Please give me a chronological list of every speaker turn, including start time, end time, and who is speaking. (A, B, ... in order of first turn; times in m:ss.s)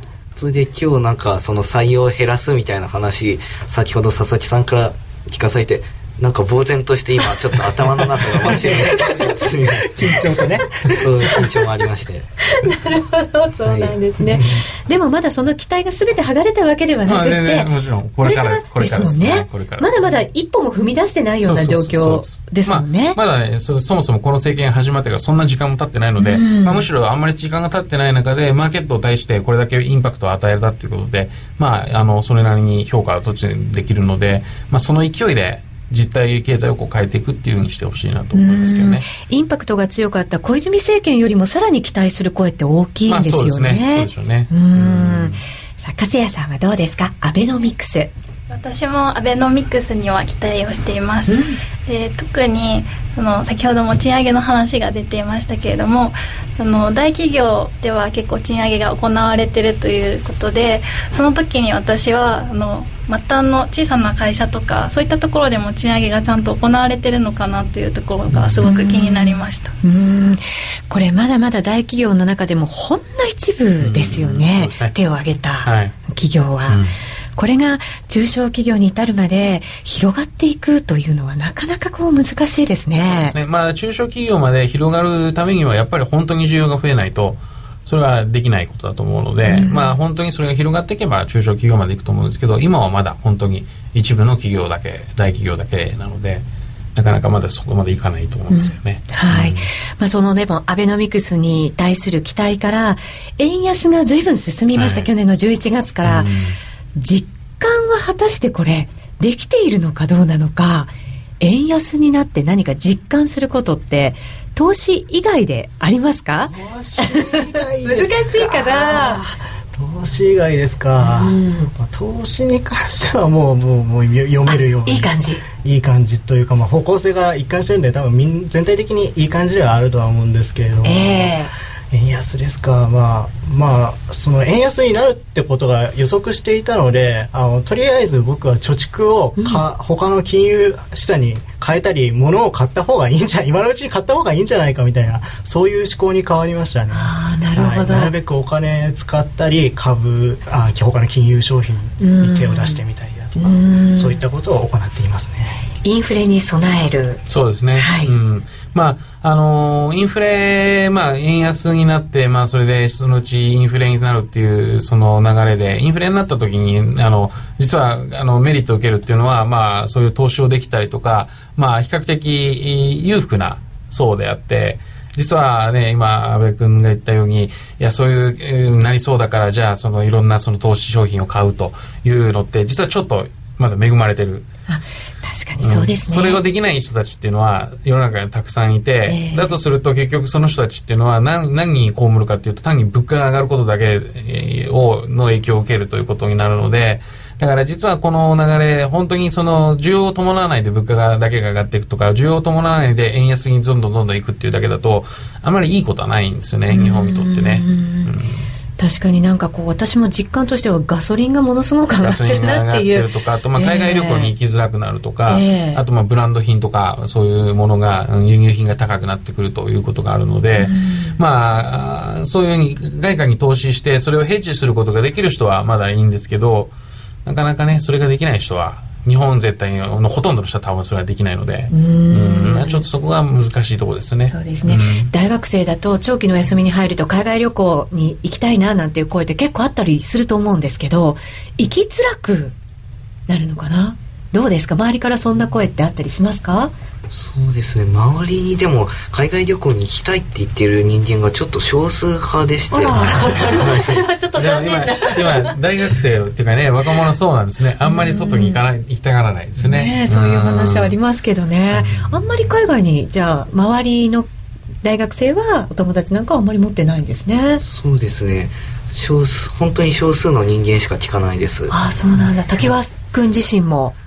0:00.4-0:10.0 A
0:08.4-0:11.1 B
0:10.9-0:12.2 A
0:12.4-0:17.7 C
0:13.6-0:14.0 A
0:14.2-0:14.6 B
0:17.0-0:20.2 D
0:18.2-0:23.2 C
0:21.4-0:39.1 D
0:26.2-0:26.8 C
0:38.3-0:48.1 C
0:43.1-0:45.4 D
0:48.5-1:09.7 E
0:51.3-0:51.6 C
1:08.3-1:08.7 D
1:08.6-1:16.8 C
1:13.8-1:15.0 D
1:15.6-1:16.0 D
1:16.7-1:16.9 D
1:17.4-1:23.3 C
1:23.0-1:36.4 D
1:29.4-1:30.0 C
1:36.9-1:39.7 D
1:38.5-1:46.3 C
1:44.7-1:45.1 D
1:46.0-1:46.6 D
1:47.0-1:59.2 C
1:56.5-2:35.6 B
2:01.0-2:01.7 C
2:04.5-2:05.4 C
2:10.8-2:11.5 C
2:26.9-2:28.1 C
2:32.0-2:32.8 C
2:33.4-2:34.2 C
2:35.8-2:37.2 C
2:37.3-3:04.4 D
2:37.8-2:38.1 C
3:04.7-3:06.4 C
3:05.6-3:28.4 D
3:09.1-3:09.5 C
3:26.7-3:28.1 C
3:28.8-3:34.3 C
3:32.0-3:46.7 D
3:35.2-3:35.8 C
3:40.6-3:41.2 C
3:47.2-3:55.1 D
3:51.7-3:52.8 C
3:54.3-4:02.5 C
4:03.3-4:06.7 C
4:07.1-4:13.6 A
4:12.7-4:15.6 C
4:12.9-4:21.0 D
4:17.8-4:18.6 C
4:19.6-4:24.3 C
4:21.7-4:22.5 D
4:24.8-4:27.6 C
4:27.6-4:31.7 A
4:31.7-4:33.9 C